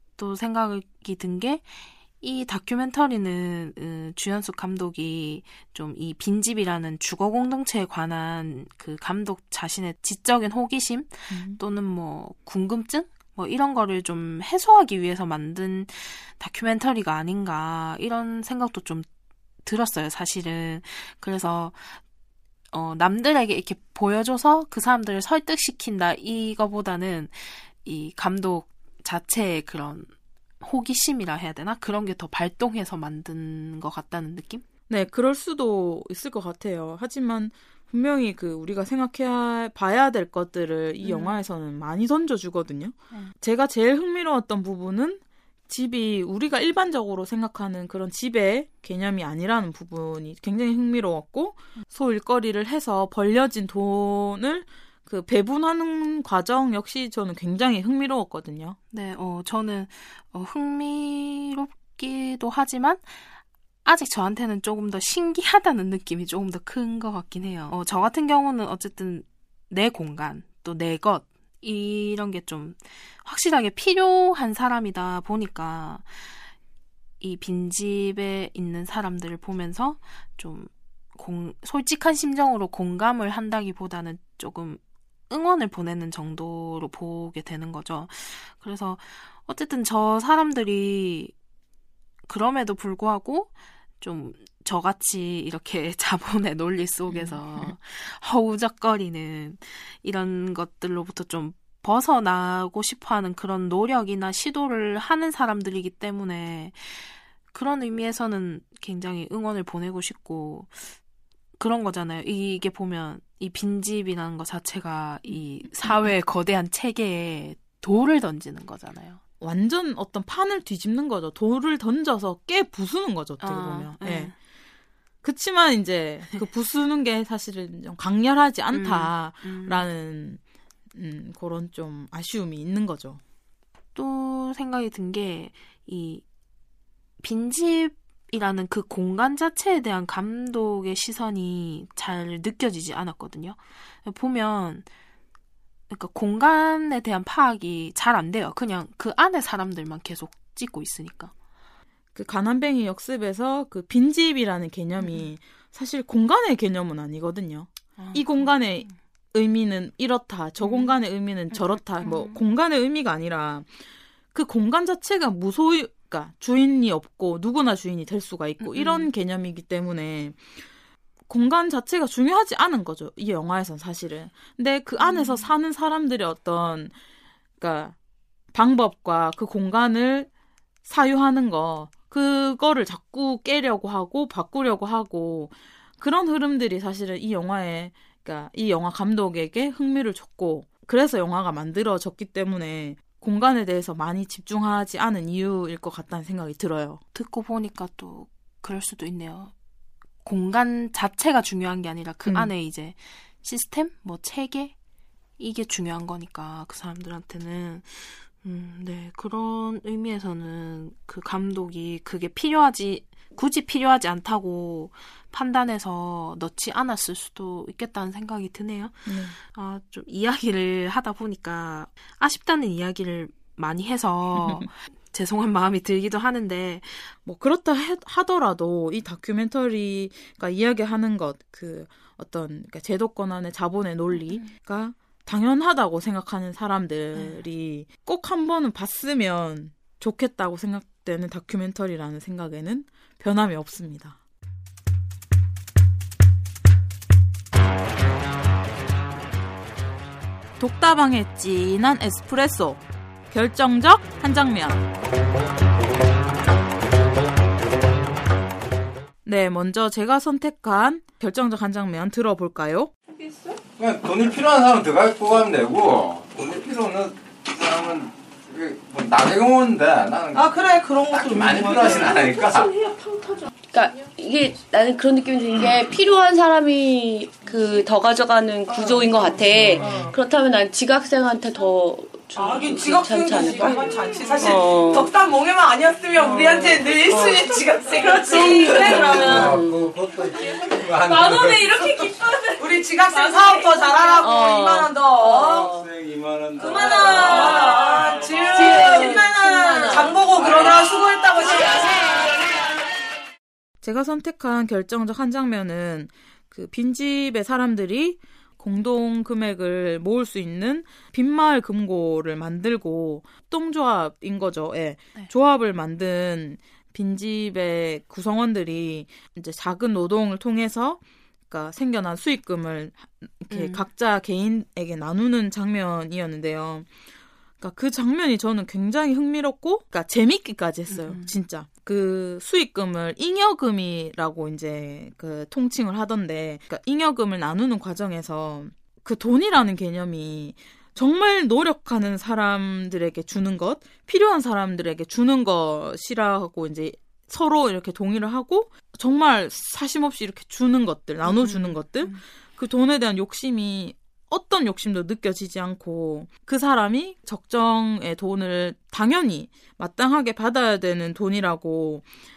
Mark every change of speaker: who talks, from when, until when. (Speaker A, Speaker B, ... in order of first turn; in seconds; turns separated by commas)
Speaker A: 0.2-19.1, Speaker B: 11.3-11.6, Speaker A: 19.6-22.0, Speaker A: 22.7-34.6, Speaker B: 34.9-58.8, Speaker A: 41.0-41.3, Speaker A: 58.9-63.2, Speaker A: 63.8-76.3, Speaker A: 77.2-91.3, Speaker A: 92.3-93.5, Speaker A: 94.0-110.9, Speaker B: 97.1-97.7, Speaker A: 111.6-119.2, Speaker B: 115.3-116.1, Speaker B: 119.4-124.3, Speaker A: 123.4-124.3, Speaker B: 125.2-130.4, Speaker A: 128.7-129.8, Speaker B: 130.9-133.2, Speaker A: 133.9-136.2, Speaker A: 137.2-144.8, Speaker A: 145.9-151.3, Speaker B: 152.1-163.7, Speaker A: 155.0-155.3, Speaker A: 158.0-158.9, Speaker A: 160.6-160.9, Speaker A: 161.5-162.4, Speaker B: 164.3-170.6, Speaker A: 168.6-169.1, Speaker B: 171.3-176.9, Speaker A: 175.0-175.5, Speaker B: 177.6-177.9, Speaker B: 178.5-180.3, Speaker B: 180.8-197.0, Speaker A: 197.1-199.5, Speaker A: 200.2-204.7, Speaker B: 202.2-202.5, Speaker A: 205.4-227.1, Speaker B: 219.1-219.3, Speaker B: 224.3-224.6, Speaker B: 227.2-244.2, Speaker A: 234.3-234.5, Speaker B: 250.6-254.8, Speaker B: 259.2-262.9, Speaker C: 263.8-270.6, Speaker D: 270.3-272.3, Speaker C: 271.1-272.7, Speaker E: 273.7-285.1, Speaker D: 278.7-280.1, Speaker C: 279.8-280.1, Speaker D: 282.4-289.6, Speaker E: 286.4-286.8, Speaker E: 288.2-289.8, Speaker C: 288.4-291.7, Speaker D: 291.4-295.6, Speaker E: 293.3-295.9, Speaker C: 295.4-298.3, Speaker D: 296.6-301.9, Speaker E: 297.0-300.7, Speaker C: 300.4-300.8, Speaker B: 303.8-326.9, Speaker A: 323.5-323.9, Speaker B: 327.6-362.1, Speaker A: 330.9-331.3, Speaker A: 351.2-352.2